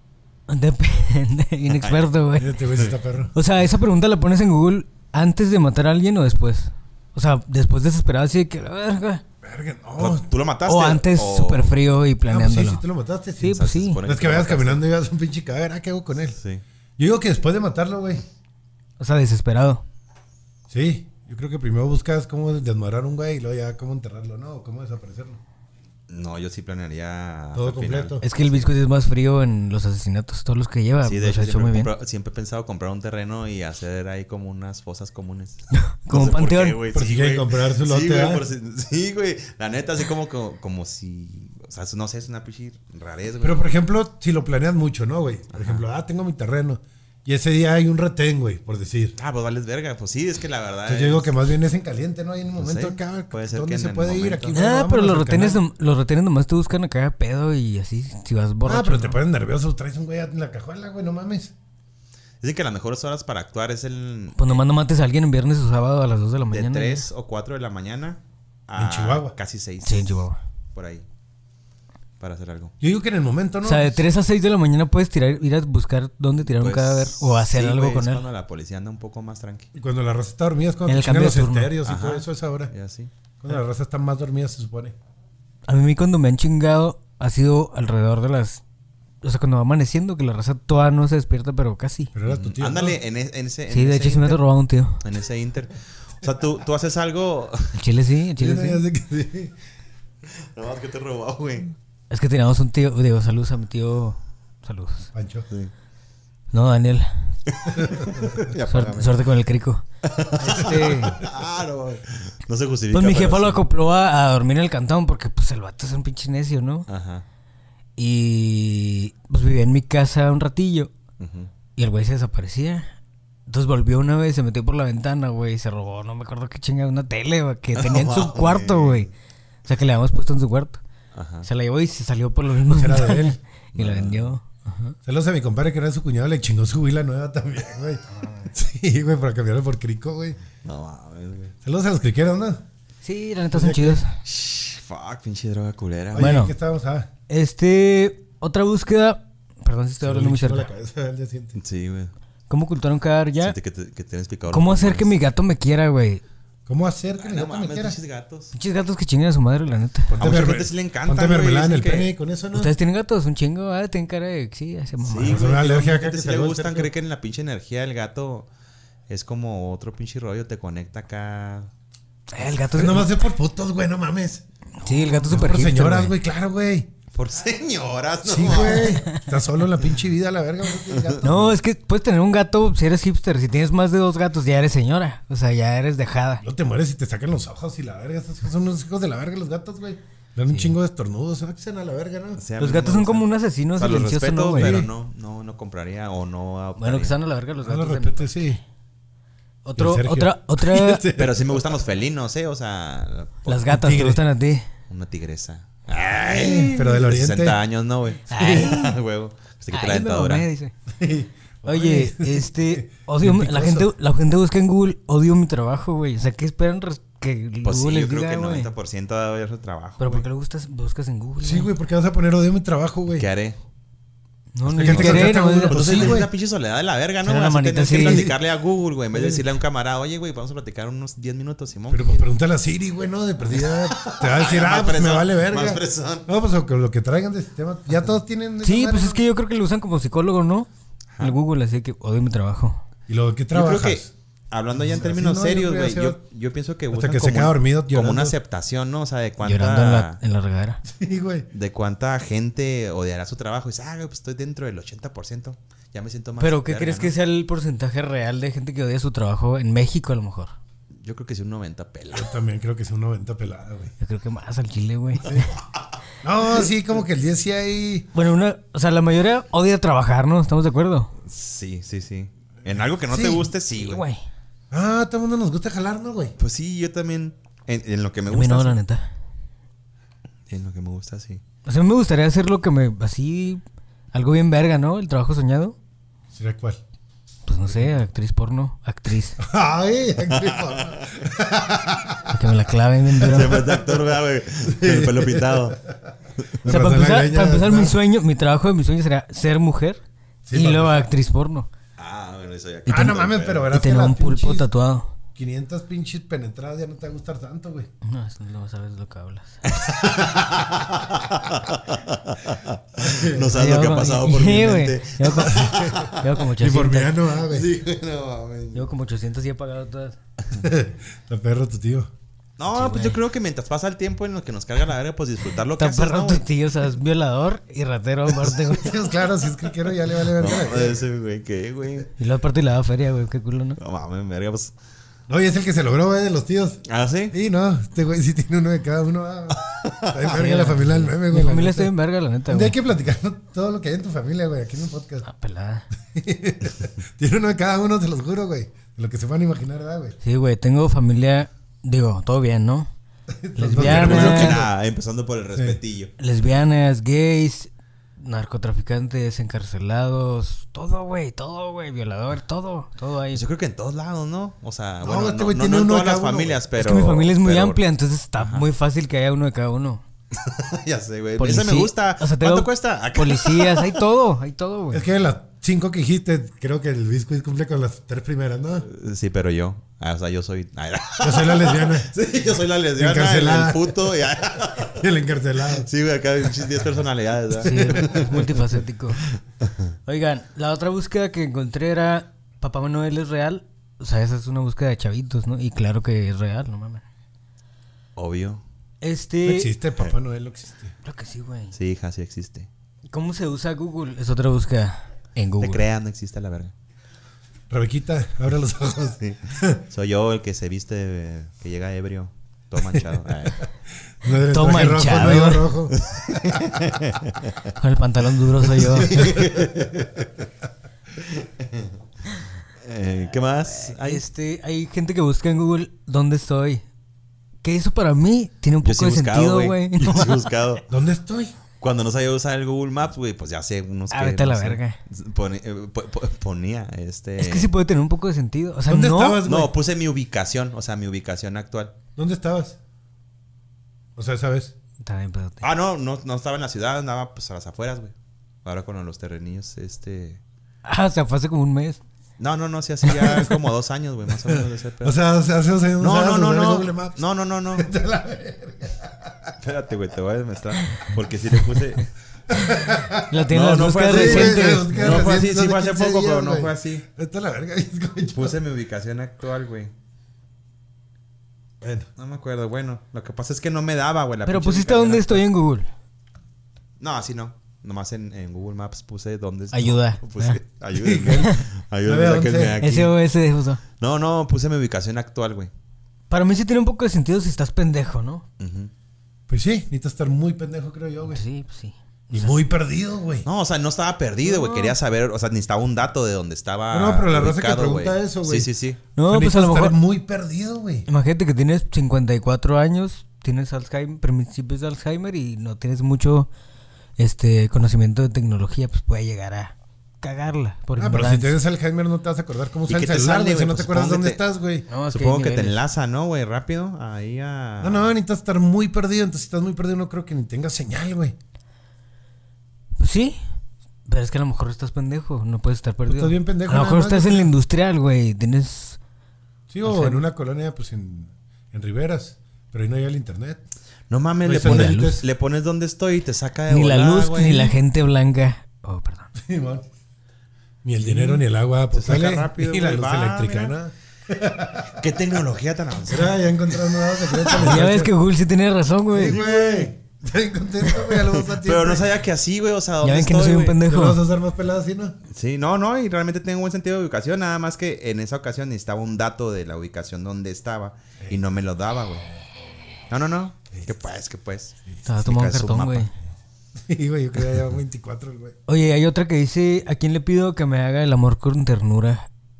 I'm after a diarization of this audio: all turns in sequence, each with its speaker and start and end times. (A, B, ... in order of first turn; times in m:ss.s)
0:00.5-0:02.6 A
0:01.7-0:02.0 B
0:02.4-0:03.3 C
0:03.3-0:09.2 A
0:09.4-0:10.2 C
0:10.0-0:11.7 B
0:10.6-0:12.8 A
0:12.2-0:16.4 C
0:13.4-0:14.0 A
0:13.4-0:14.8 B
0:16.4-0:16.6 B
0:17.0-0:18.2 C
0:19.0-0:19.8 A
0:20.7-0:25.4 C
0:26.1-0:28.7 B
0:27.5-0:28.2 C
0:28.2-0:31.9 A
0:31.0-0:43.6 B
0:35.7-0:36.8 A
0:36.9-0:38.4 C
0:43.4-0:49.1 C
0:45.5-0:45.8 B
0:49.2-0:51.4 B
0:50.9-0:55.6 C
0:52.6-0:54.6 B
0:54.5-0:59.2 A
0:58.6-1:01.5 C
1:02.4-1:04.6 B
1:04.4-1:07.1 A
1:06.5-1:10.2 B
1:08.8-1:09.3 C
1:09.8-1:10.4 A
1:10.7-1:11.0 B
1:12.2-1:12.7 B
1:12.8-1:14.0 C
1:13.6-1:18.2 A
1:16.4-1:19.7 B
1:19.7-1:22.7 C
1:20.9-1:21.8 A
1:21.8-1:23.1 B
1:23.4-1:24.9 C
1:25.7-1:28.6 A
1:29.2-1:32.1 A
1:32.1-1:33.0 C
1:32.2-1:34.4 B
1:33.7-1:35.0 A
1:35.0-1:37.7 B
1:37.7-1:38.8 A
1:38.4-1:39.5 C
1:40.3-1:41.7 B
1:42.1-1:45.1 A
1:45.1-1:45.5 C
1:46.5-1:47.4 A
1:47.5-1:49.2 B
1:47.7-1:48.3 C
1:48.7-1:49.8 A
1:50.0-1:53.6 B
1:50.4-1:51.2 A
1:50.4-1:51.2 C
1:52.9-1:56.9 A
1:56.9-1:57.2 B
1:58.0-2:00.9 A
2:01.2-2:01.5 B
2:01.8-2:02.9 A
2:03.5-2:09.1 A
2:07.8-2:09.1 B
2:09.6-2:10.8 A
2:11.1-2:11.5 B
2:11.4-2:15.0 A
2:12.7-2:13.4 C
2:13.7-2:14.4 B
2:15.0-2:20.4 C
2:18.1-2:18.5 A
2:20.6-2:21.5 B
2:21.6-2:22.6 C
2:23.0-2:24.2 A
2:23.5-2:24.0 C
2:24.2-2:26.4 B
2:26.1-2:27.1 C
2:26.2-2:26.5 A
2:27.3-2:30.7 A
2:30.0-2:31.6 C
2:31.6-2:32.1 B
2:32.5-2:33.5 A
2:33.4-2:35.2 B
2:34.5-2:36.2 A
2:36.7-2:38.0 C
2:37.2-2:38.5 B
2:38.5-2:40.1 A
2:40.1-2:42.7 C
2:40.2-2:42.1 B
2:42.5-2:45.4 A
2:45.0-2:48.5 B
2:45.2-2:46.9 C
2:49.1-2:51.7 B
2:52.3-2:53.1 A
2:52.7-2:54.4 C
2:54.8-2:56.1 A
2:55.0-2:56.9 C
2:57.1-2:59.0 B
2:58.2-3:01.6 C
2:58.7-2:59.2 A
3:00.9-3:01.3 B
3:01.2-3:06.4 A
3:06.4-3:12.4 C
3:12.4-3:17.1 B
3:12.6-3:14.8 A
3:14.6-3:14.9 C
3:16.8-3:18.6 A
3:17.6-3:18.6 C
3:19.6-3:21.0 A
3:19.8-3:21.7 C
3:21.1-3:23.8 B
3:23.5-3:24.7 A
3:23.7-3:24.2 C
3:24.9-3:30.5 B
3:26.2-3:27.6 C
3:28.3-3:29.0 A
3:29.7-3:30.7 A
3:30.9-3:33.9 C
3:31.6-3:38.7 A
3:37.6-3:40.2 B
3:40.0-3:41.7 A
3:41.4-3:43.3 C
3:43.2-3:43.6 B
3:44.5-3:46.2 A
3:44.7-3:46.3 C
3:44.8-3:52.3 B
3:47.2-3:48.2 A
3:48.0-3:48.4 C
3:49.1-3:49.4 C
3:51.9-3:59.2 C
3:53.5-3:56.3 B
3:58.6-4:00.7 A
4:01.2-4:02.8 A
4:03.1-4:04.1 C
4:03.5-4:10.2 B
4:04.8-4:06.2 C
4:06.9-4:08.4 C
4:09.4-4:10.8 A
4:10.8-4:11.5 C
4:11.5-4:17.1 B
4:16.4-4:20.5 A
4:21.0-4:22.3 B
4:22.1-4:23.9 C
4:24.0-4:25.5 A
4:25.2-4:25.5 C
4:26.2-4:28.1 C
4:28.1-4:31.1 A
4:31.2-4:34.0 B
4:33.1-4:33.5 C
4:33.8-4:34.2 A
4:34.7-4:36.3 C
4:36.4-4:38.8 B
4:38.3-4:39.0 A
4:40.5-4:41.4 B
4:41.6-4:43.6 A
4:44.1-4:45.8 A
4:46.3-4:46.8 C
4:47.4-4:49.4 A
4:49.4-4:52.4 C
4:50.3-4:51.2 B
4:52.3-4:53.6 A
4:53.2-4:55.9 C
4:53.2-4:55.8 B
4:56.4-4:56.6 B
4:56.6-4:58.0 C
4:56.6-5:00.0 A
5:00.4-5:01.1 C
5:00.5-5:01.7 A
5:02.0-5:03.7 B
5:02.9-5:04.7 C
5:03.7-5:05.1 A
5:05.3-5:07.9 C
5:08.0-5:09.6 A
5:09.7-5:16.3 B
5:13.0-5:13.5 C
5:13.4-5:17.3 A
5:15.4-5:17.7 C
5:17.4-5:18.9 B
5:18.7-5:20.2 A
5:20.5-5:22.1 C
5:22.6-5:26.4 B
5:22.7-5:23.2 A
5:25.8-5:29.0 A
5:28.7-5:31.0 C
5:30.3-5:32.1 B
5:32.2-5:33.8 A
5:33.8-5:34.7 B
5:35.3-5:41.9 C
5:36.8-5:37.3 B
5:39.6-5:40.2 B
5:40.2-5:42.8 A
5:42.5-5:45.3 C
5:45.2-5:45.9 A
5:46.1-5:50.2 C
5:50.2-5:52.9 A
5:53.3-5:54.7 C
5:53.6-5:54.6 A
5:53.8-5:56.1 B
5:56.2-6:03.4 A
6:03.3-6:07.8 B
6:05.0-6:06.6 C
6:06.8-6:10.0 A
6:08.4-6:08.6 B
6:10.3-6:14.0 B
6:11.4-6:15.0 A
6:14.9-6:18.8 C
6:18.8-6:25.0 B
6:21.2-6:22.1 C
6:23.0-6:24.0 C
6:24.8-6:25.9 C
6:25.8-6:28.6 B
6:27.6-6:28.3 C
6:27.6-6:29.2 A
6:29.2-6:29.9 B
6:30.0-6:37.0 A
6:38.2-6:38.6 B
6:39.0-6:39.7 A
6:39.4-6:40.9 C
6:41.0-6:41.8 A
6:41.7-6:42.7 B
6:43.1-6:45.8 A
6:45.6-6:46.7 B
6:47.7-6:49.8 C
6:49.2-6:53.6 B
6:54.1-6:57.0 C
6:54.4-6:55.7 A
6:55.9-6:57.7 B
6:57.7-6:59.3 A
6:58.8-7:00.3 B
6:59.0-7:00.0 C
7:01.2-7:01.9 B
7:02.8-7:04.2 B
7:03.7-7:06.8 A
7:07.6-7:10.5 A
7:08.8-7:10.8 B
7:10.9-7:11.5 C
7:11.8-7:17.7 B
7:14.1-7:15.0 A
7:17.4-7:19.4 A
7:18.9-7:19.7 C
7:19.4-7:21.9 B
7:22.2-7:22.8 C
7:24.2-7:24.7 C
7:25.0-7:25.6 A
7:25.6-7:28.1 B
7:28.6-7:30.4 B
7:30.8-7:32.0 A
7:32.4-7:35.2 B
7:33.0-7:33.6 C
7:34.4-7:37.2 C
7:36.0-7:37.9 B
7:37.7-7:39.5 C
7:39.6-7:42.1 B
7:40.8-7:41.8 C
7:42.5-7:43.3 C
7:43.3-7:45.1 A
7:43.5-7:47.0 B
7:44.1-7:48.6 C
7:48.3-7:49.9 B
7:51.8-7:52.1 C
7:52.2-7:55.4 B
7:54.4-7:55.9 A
7:57.0-8:03.1 B
7:59.7-8:00.6 A
8:00.9-8:02.8 C
8:01.3-8:01.6 A
8:02.8-8:03.8 A
8:04.0-8:05.7 B
8:06.3-8:08.4 A
8:08.6-8:08.9 B
8:09.5-8:11.4 C
8:11.2-8:12.6 A
8:12.3-8:13.5 C
8:13.4-8:19.0 B
8:14.5-8:14.9 A
8:16.9-8:18.7 C
8:19.2-8:20.0 A
8:19.2-8:21.1 C
8:21.1-8:26.5 A
8:27.2-8:31.6 A
8:31.0-8:34.8 C
8:32.9-8:34.4 B
8:34.9-8:35.8 A
8:35.1-8:38.1 B
8:37.8-8:41.3 C
8:43.0-8:43.4 A
8:44.0-8:49.0 A
8:46.1-8:47.5 C
8:49.7-8:53.6 C
8:49.8-8:50.2 A
8:54.1-8:57.8 B
8:54.4-8:55.2 C
8:54.6-8:55.2 A
8:56.7-8:59.3 A
8:59.3-8:59.9 C
9:00.8-9:05.0 C
9:01.0-9:03.7 B
9:05.0-9:06.4 B
9:06.1-9:08.1 C
9:07.4-9:07.7 B
9:07.5-9:09.4 A
9:09.1-9:12.1 C
9:09.3-9:09.8 B
9:11.2-9:13.8 B
9:13.0-9:14.2 A
9:13.8-9:15.2 C
9:15.3-9:22.2 B
9:23.1-9:26.1 B
9:25.0-9:26.1 A
9:26.8-9:28.5 C
9:28.7-9:32.2 A